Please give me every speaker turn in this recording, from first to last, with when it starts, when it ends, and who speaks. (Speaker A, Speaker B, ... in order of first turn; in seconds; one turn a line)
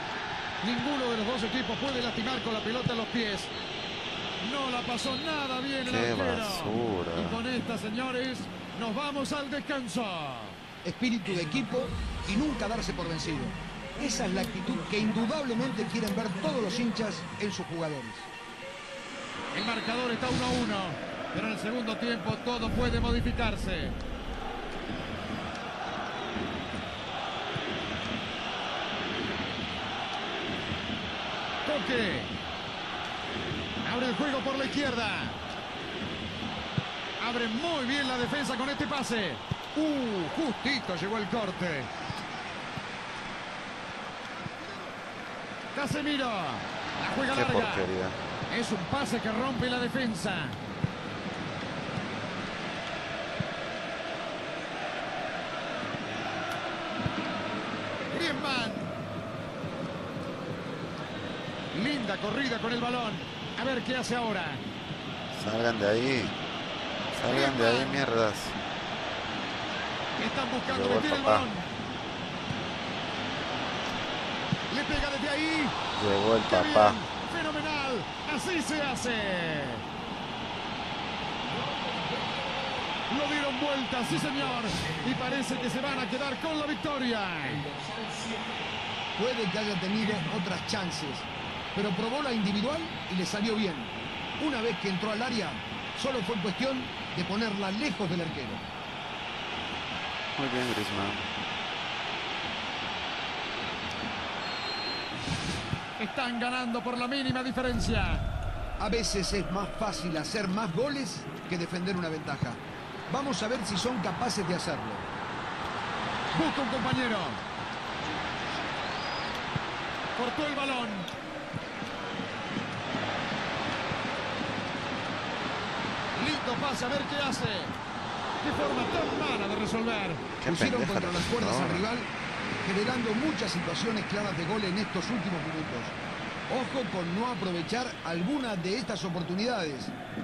Speaker A: 0.6-3.5
Speaker A: 4.4-10.6
Speaker B: 5.8-7.4
Speaker C: 10.8-18.3
Speaker A: 19.5-24.0
Speaker A: 31.6-32.3
Speaker A: 33.8-35.4
Speaker A: 37.2-41.9
Speaker A: 45.7-47.9
Speaker B: 47.1-48.2
Speaker A: 48.5-50.6
Speaker A: 58.1-58.9
Speaker A: 61.7-64.6
Speaker B: 65.3-66.3
Speaker B: 67.1-68.6
Speaker A: 67.2-68.0
Speaker A: 70.2-71.8
Speaker B: 70.7-71.5
Speaker A: 74.7-75.8
Speaker B: 76.0-77.0
Speaker A: 76.4-79.8
Speaker A: 83.1-87.6
Speaker C: 89.2-98.7
Speaker B: 100.4-101.2
Speaker A: 106.0-108.2
Speaker C: 108.8-115.0
Speaker A: 116.3-117.4
Speaker A: 120.2-121.1
Speaker A: 126.1-127.8
Speaker A: 128.4-130.2
Speaker B: 130.4-131.8
Speaker C: 130.4-132.1
Speaker C: 132.6-135.9
Speaker C: 136.5-139.9